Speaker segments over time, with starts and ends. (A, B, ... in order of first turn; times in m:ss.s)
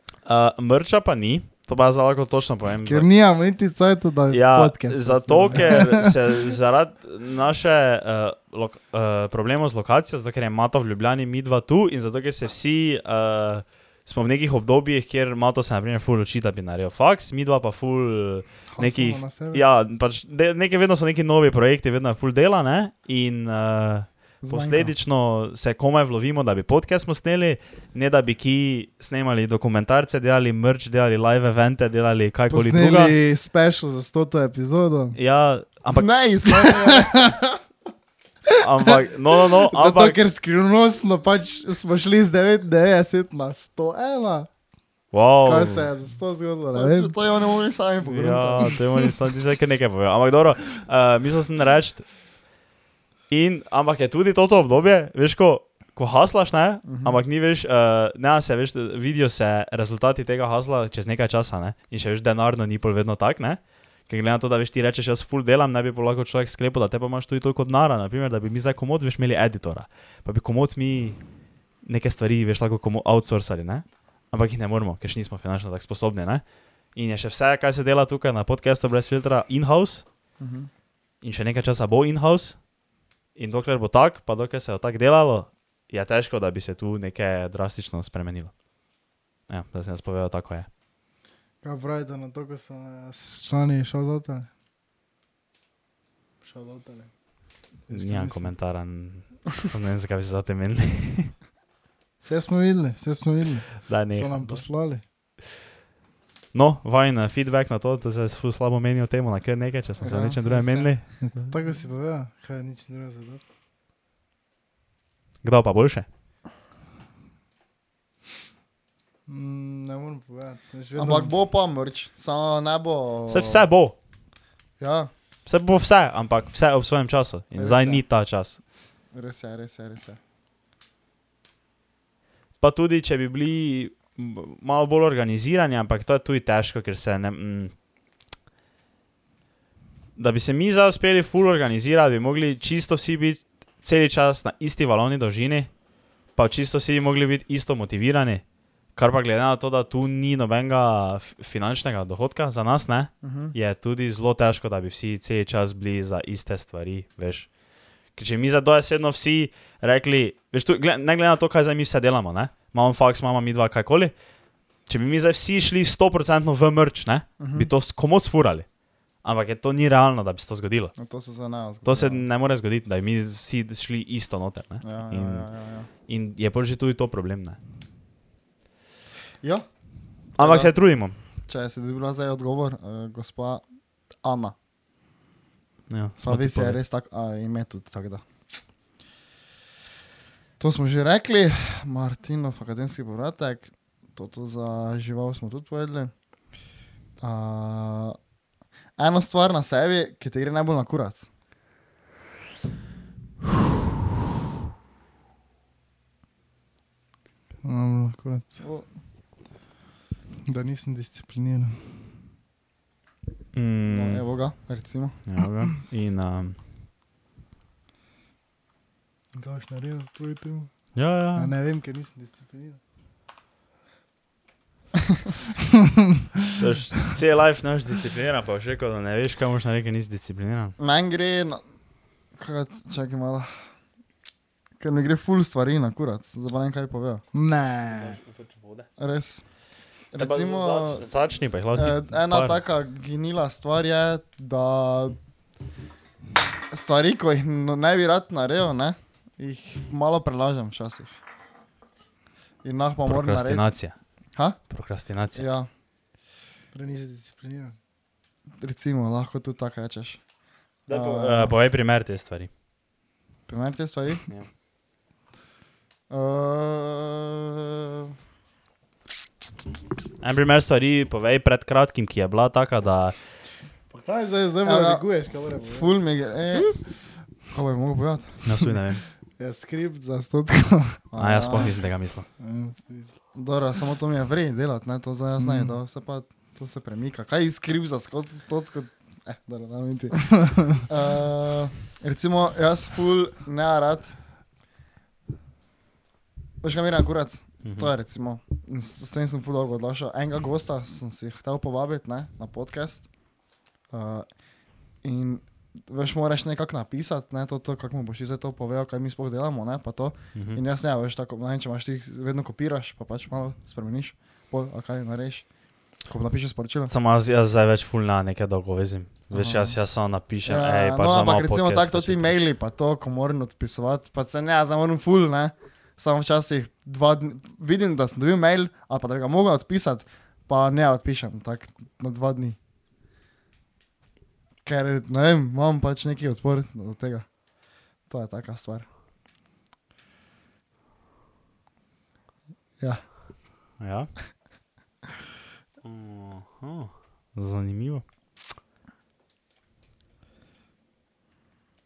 0:00.2-0:03.1 A
0:02.8-0:06.5 B
0:04.3-0:33.2 A
0:18.7-0:19.6 B
0:24.4-0:24.9 C
0:32.5-0:35.2 B
0:35.1-0:36.1 A
0:35.9-0:37.3 C
0:36.5-0:37.6 B
0:38.5-0:44.5 B
0:38.6-0:40.2 A
0:45.1-0:45.9 A
0:45.4-0:47.1 B
0:46.7-0:48.8 C
0:48.0-0:52.1 A
0:48.6-0:49.0 B
0:53.3-1:11.2 A
0:56.8-0:57.2 C
1:11.8-1:16.4 A
1:16.9-1:20.0 A
1:20.4-1:20.7 C
1:21.2-1:22.6 A
1:23.4-1:28.5 A
1:29.5-1:30.7 A
1:31.6-1:34.5 B
1:36.4-1:37.1 B
1:37.9-1:38.5 B
1:37.9-1:41.4 A
1:42.2-1:45.0 B
1:43.9-1:44.6 A
1:46.5-1:51.5 A
1:50.0-1:50.9 C
1:51.2-1:53.4 B
1:55.4-1:56.0 A
1:59.3-2:01.3 B
2:01.0-2:03.6 C
2:03.3-2:04.0 A
2:04.8-2:05.1 C
2:05.4-2:08.6 A
2:07.5-2:08.0 C
2:09.1-2:10.2 C
2:12.6-2:17.7 A
2:20.2-2:25.7 A
2:26.4-2:28.4 A
2:28.9-2:37.5 A
2:33.2-2:33.5 C
2:38.1-2:44.1 A
2:44.9-2:48.7 A
2:47.4-2:47.7 C
2:49.2-2:50.9 A
2:51.0-2:52.2 C
2:51.8-2:57.6 A
2:54.8-2:55.9 C
3:00.4-3:00.7 C
3:00.4-3:01.2 A
3:01.4-3:03.6 C
3:04.2-3:04.5 C
3:05.9-3:06.8 A
3:06.2-3:08.2 C
3:10.6-3:16.1 C
3:17.2-3:18.2 C
3:19.0-3:21.3 C
3:27.6-3:28.6 B
3:28.6-3:28.9 C
3:30.4-3:31.9 B
3:33.5-3:34.2 A
3:33.9-3:35.2 C
3:35.2-3:36.6 A
3:39.3-3:40.7 B
3:40.9-3:41.5 A
3:41.3-3:42.8 B
3:46.5-3:50.8 A
3:50.8-3:51.6 C
3:52.4-3:53.7 C
3:54.8-3:57.2 C
3:57.3-3:58.2 B
3:57.9-3:58.9 A
3:59.0-3:59.4 C
4:00.1-4:01.0 C
4:00.2-4:02.6 A
4:01.7-4:05.2 C
4:06.7-4:11.2 C
4:12.6-4:13.7 C
4:13.0-4:14.0 A
4:14.7-4:15.4 A
4:15.3-4:15.7 C
4:16.7-4:17.8 B
4:18.6-4:20.2 C
4:20.9-4:22.5 A
4:20.9-4:21.6 C
4:23.5-4:24.3 C
4:26.1-4:28.1 C
4:30.2-4:33.1 A
4:33.9-4:35.9 B
4:34.6-4:35.0 C
4:35.7-4:36.8 C
4:37.5-4:38.6 C
4:38.4-4:39.0 A
4:39.4-4:41.7 B
4:41.1-4:41.7 C
4:41.2-4:42.2 A
4:42.4-4:43.2 B
4:43.3-4:54.2 C
4:45.4-4:45.8 B
4:56.6-5:03.1 C
4:57.6-4:57.9 A
5:03.9-5:04.3 C
5:05.0-5:15.5 C
5:10.3-5:10.6 A
5:16.0-5:16.9 C
5:16.9-5:22.4 A
5:19.3-5:19.8 C
5:20.4-5:32.6 C
5:34.6-5:37.2 C
5:38.1-5:38.8 C
5:42.8-5:43.0 C
5:43.8-5:44.1 A
5:45.8-5:48.0 A